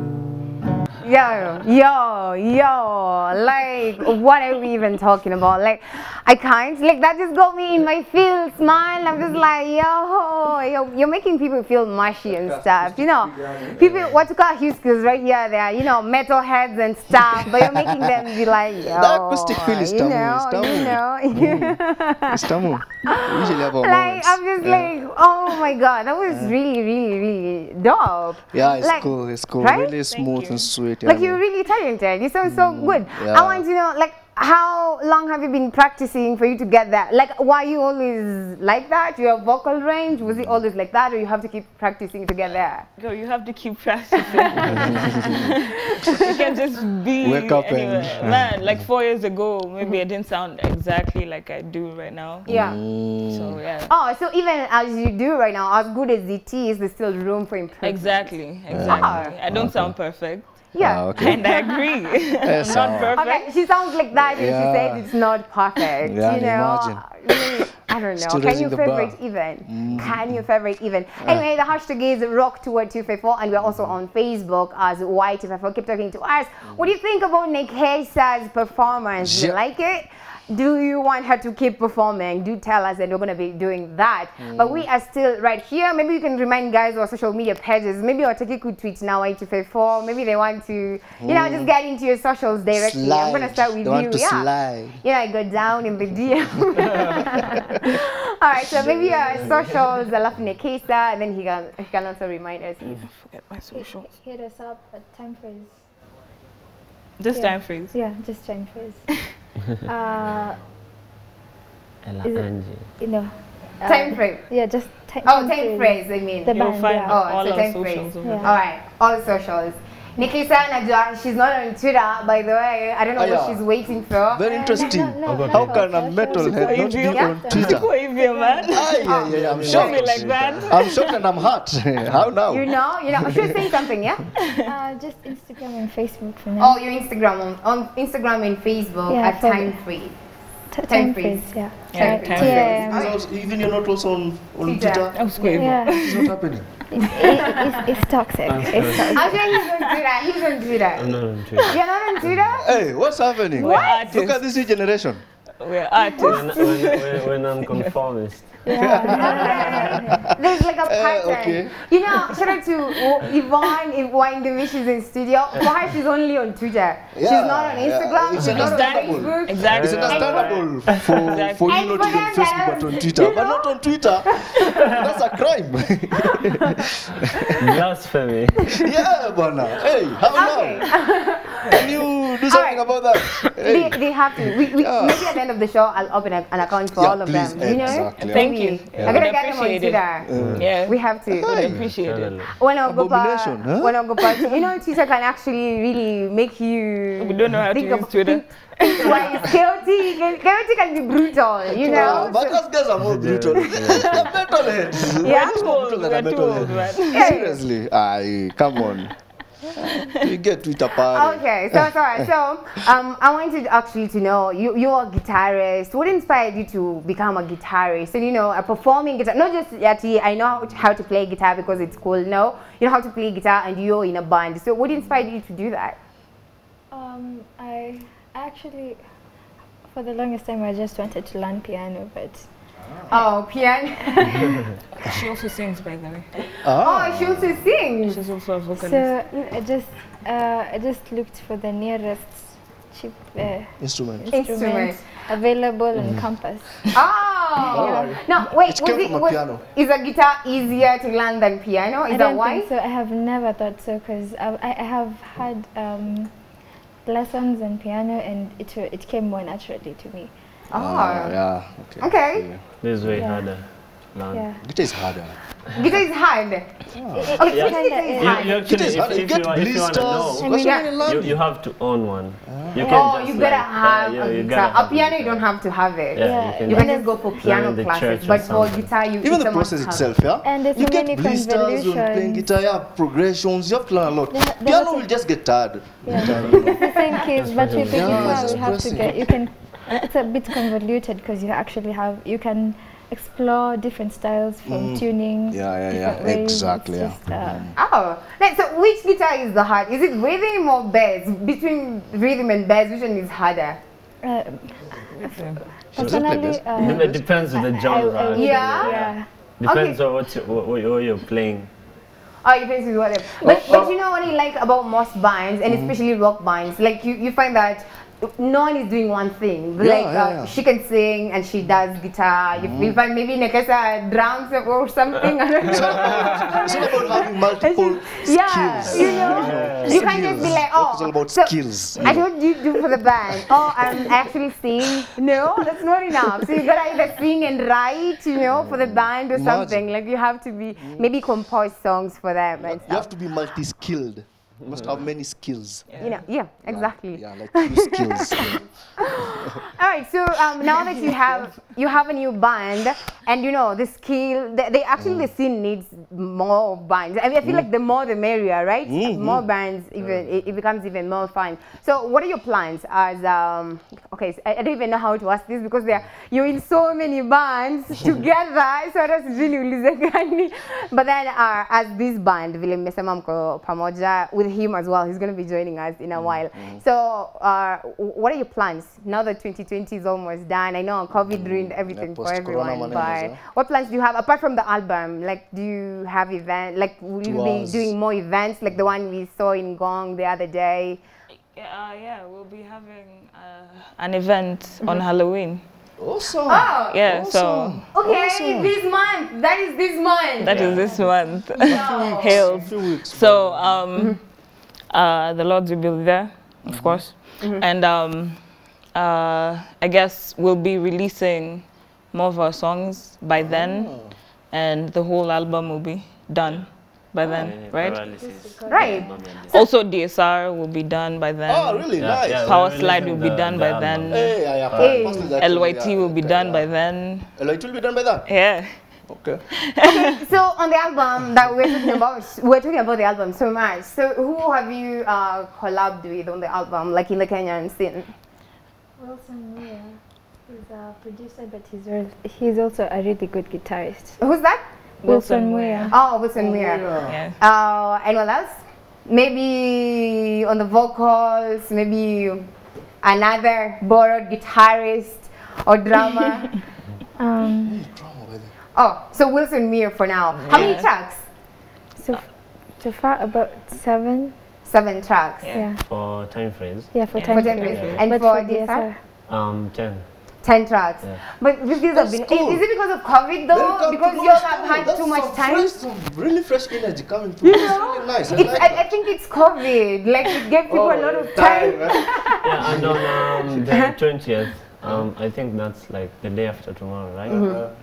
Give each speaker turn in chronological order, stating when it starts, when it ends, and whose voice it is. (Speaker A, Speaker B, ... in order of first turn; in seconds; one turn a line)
Speaker A: 1.0-22.4
Speaker B: 12.5-14.2
Speaker B: 18.9-24.9
Speaker A: 22.9-30.0
Speaker B: 26.3-26.6
Speaker B: 28.5-31.4
Speaker C: 30.1-30.7
Speaker A: 31.1-42.9
Speaker B: 32.5-33.6
Speaker B: 40.2-40.6
Speaker C: 43.0-52.5
Speaker A: 44.3-45.3
Speaker B: 44.8-45.4
Speaker A: 45.9-46.3
Speaker B: 47.2-48.5
Speaker A: 52.5-52.8
Speaker B: 52.5-53.6
Speaker C: 53.3-53.9
Speaker A: 53.9-59.4
Speaker C: 57.8-60.6
Speaker B: 58.7-60.0
Speaker A: 60.7-61.8
Speaker B: 60.8-61.4
Speaker C: 61.1-63.5
Speaker B: 62.4-63.2
Speaker A: 63.1-94.5
Speaker B: 64.1-65.1
Speaker B: 66.0-67.2
Speaker B: 68.2-70.5
Speaker B: 71.2-71.5
Speaker B: 73.6-73.9
Speaker B: 79.2-79.6
Speaker B: 84.4-84.9
Speaker B: 91.2-91.7
Speaker B: 92.7-95.0
Speaker A: 95.0-103.0
Speaker B: 98.8-99.6
Speaker C: 102.9-104.1
Speaker D: 103.7-105.9
Speaker C: 107.2-108.0
Speaker D: 107.3-110.6
Speaker E: 112.0-112.9
Speaker D: 112.2-117.2
Speaker A: 113.8-114.5
Speaker A: 115.2-124.6
Speaker C: 116.5-118.6
Speaker D: 118.2-118.5
Speaker B: 123.2-128.0
Speaker D: 124.4-129.2
Speaker E: 125.2-125.9
Speaker C: 126.5-129.1
Speaker A: 127.1-127.4
Speaker B: 128.7-133.7
Speaker A: 129.0-130.0
Speaker E: 129.2-130.8
Speaker C: 129.7-131.2
Speaker A: 132.5-134.2
Speaker D: 134.6-136.8
Speaker A: 136.6-140.2
Speaker D: 139.1-139.8
Speaker D: 140.7-143.1
Speaker A: 140.8-143.2
Speaker C: 141.9-142.7
Speaker B: 142.3-146.8
Speaker A: 144.6-145.7
Speaker C: 145.1-146.3
Speaker D: 145.6-146.1
Speaker D: 146.9-149.3
Speaker E: 148.4-149.3
Speaker A: 149.0-151.1
Speaker E: 150.9-152.6
Speaker A: 151.6-152.7
Speaker B: 152.6-155.2
Speaker C: 153.6-154.6
Speaker D: 153.6-154.0
Speaker C: 155.6-157.8
Speaker E: 156.2-159.7
Speaker D: 158.6-160.2
Speaker B: 158.7-160.3
Speaker A: 159.0-170.7
Speaker B: 160.8-161.8
Speaker B: 167.2-177.7
Speaker C: 168.5-172.2
Speaker E: 169.6-171.2
Speaker A: 171.7-173.8
Speaker A: 174.3-174.9
Speaker E: 174.7-175.1
Speaker E: 177.6-178.7
Speaker B: 178.7-180.8
Speaker A: 180.3-182.8
Speaker B: 181.7-184.2
Speaker A: 183.6-191.5
Speaker B: 184.8-185.3
Speaker B: 186.9-189.2
Speaker C: 188.2-192.4
Speaker B: 190.2-190.8
Speaker E: 190.3-190.7
Speaker B: 191.3-191.9
Speaker E: 191.7-192.7
Speaker A: 192.5-202.7
Speaker B: 192.8-194.0
Speaker C: 197.2-199.2
Speaker B: 201.8-212.2
Speaker E: 203.0-204.5
Speaker A: 203.5-204.2
Speaker A: 205.2-205.7
Speaker C: 205.2-207.3
Speaker A: 207.1-207.6
Speaker A: 211.1-226.0
Speaker D: 226.9-229.0
Speaker D: 229.9-232.5
Speaker A: 233.1-234.5
Speaker D: 234.3-234.5
Speaker C: 235.0-236.3
Speaker B: 236.6-237.6
Speaker A: 236.8-238.2
Speaker C: 238.1-239.1
Speaker D: 238.8-246.8
Speaker B: 243.8-244.3
Speaker A: 244.3-245.1
Speaker E: 246.0-246.2
Speaker A: 246.9-252.7
Speaker B: 247.7-249.6
Speaker D: 247.7-248.1
Speaker D: 252.1-256.3
Speaker D: 257.1-260.3
Speaker A: 260.7-261.4
Speaker B: 260.7-262.6
Speaker A: 262.0-262.5
Speaker E: 262.8-264.5
Speaker D: 263.1-263.5
Speaker D: 264.3-264.6
Speaker B: 264.6-265.4
Speaker A: 265.7-266.8
Speaker B: 266.9-267.4
Speaker D: 267.2-268.4
Speaker A: 267.3-268.6
Speaker E: 267.4-275.6
Speaker B: 268.6-271.4
Speaker D: 270.4-270.9
Speaker A: 270.6-270.9
Speaker B: 272.5-273.0
Speaker A: 272.8-280.1
Speaker E: 276.1-279.0
Speaker D: 276.2-277.4
Speaker B: 279.1-287.0
Speaker D: 280.4-282.6
Speaker D: 284.3-285.2
Speaker D: 286.0-297.7
Speaker E: 286.2-286.6
Speaker E: 287.2-288.6
Speaker B: 287.9-289.3
Speaker B: 294.7-297.8
Speaker A: 297.8-303.8
Speaker D: 304.2-309.3
Speaker C: 305.1-305.6
Speaker E: 305.9-309.0
Speaker B: 306.1-307.2
Speaker A: 308.3-309.0
Speaker C: 308.8-309.2
Speaker E: 309.6-311.7
Speaker A: 309.6-310.0
Speaker A: 312.4-343.1
Speaker D: 313.4-313.6
Speaker B: 313.7-313.9
Speaker B: 315.7-315.9
Speaker B: 319.8-320.6
Speaker B: 322.6-323.0
Speaker B: 325.6-332.3
Speaker E: 328.9-330.5
Speaker B: 339.0-339.9
Speaker B: 340.8-341.1
Speaker B: 342.6-346.0
Speaker C: 345.9-346.2
Speaker A: 346.0-348.4
Speaker B: 346.6-348.7
Speaker A: 349.0-391.0
Speaker B: 355.0-355.3
Speaker B: 357.4-357.7
Speaker B: 358.9-359.4
Speaker B: 376.1-376.8
Speaker B: 381.3-383.4
Speaker B: 387.2-387.9
Speaker C: 391.5-395.6
Speaker B: 396.0-398.8
Speaker A: 396.5-397.1
Speaker C: 396.9-397.9
Speaker A: 397.9-400.7
Speaker C: 400.4-418.1
Speaker B: 400.4-401.0
Speaker D: 400.8-401.5
Speaker B: 401.6-403.8
Speaker A: 401.6-402.7
Speaker B: 406.7-407.0
Speaker A: 407.4-407.6
Speaker B: 413.4-414.1
Speaker E: 417.2-419.5
Speaker D: 418.0-419.2
Speaker A: 418.7-419.7
Speaker C: 419.5-424.4
Speaker B: 421.5-422.5
Speaker E: 422.0-425.1
Speaker B: 424.1-426.8
Speaker A: 424.8-425.3
Speaker C: 425.1-427.3
Speaker B: 427.4-428.4
Speaker C: 428.2-429.0
Speaker B: 429.1-429.4
Speaker A: 429.9-438.1
Speaker D: 439.0-444.3
Speaker A: 444.2-444.6
Speaker C: 445.0-445.9
Speaker D: 445.1-446.1
Speaker A: 445.9-452.5
Speaker B: 446.4-447.2
Speaker C: 447.1-447.4
Speaker A: 453.0-456.6
Speaker D: 457.2-457.9
Speaker B: 457.5-458.5
Speaker A: 458.8-461.3
Speaker C: 460.3-460.9
Speaker D: 462.0-464.3
Speaker A: 464.7-465.6
Speaker C: 465.4-465.7
Speaker D: 465.5-465.8
Speaker E: 465.8-466.9
Speaker D: 466.9-469.0
Speaker C: 467.1-468.0
Speaker A: 467.3-468.9
Speaker E: 467.6-468.1
Speaker E: 469.3-470.1
Speaker A: 470.4-475.7
Speaker B: 471.9-472.7
Speaker B: 473.5-478.9
Speaker A: 477.4-484.0
Speaker B: 480.7-483.8
Speaker E: 482.4-487.4
Speaker A: 487.3-487.6
Speaker B: 487.3-487.8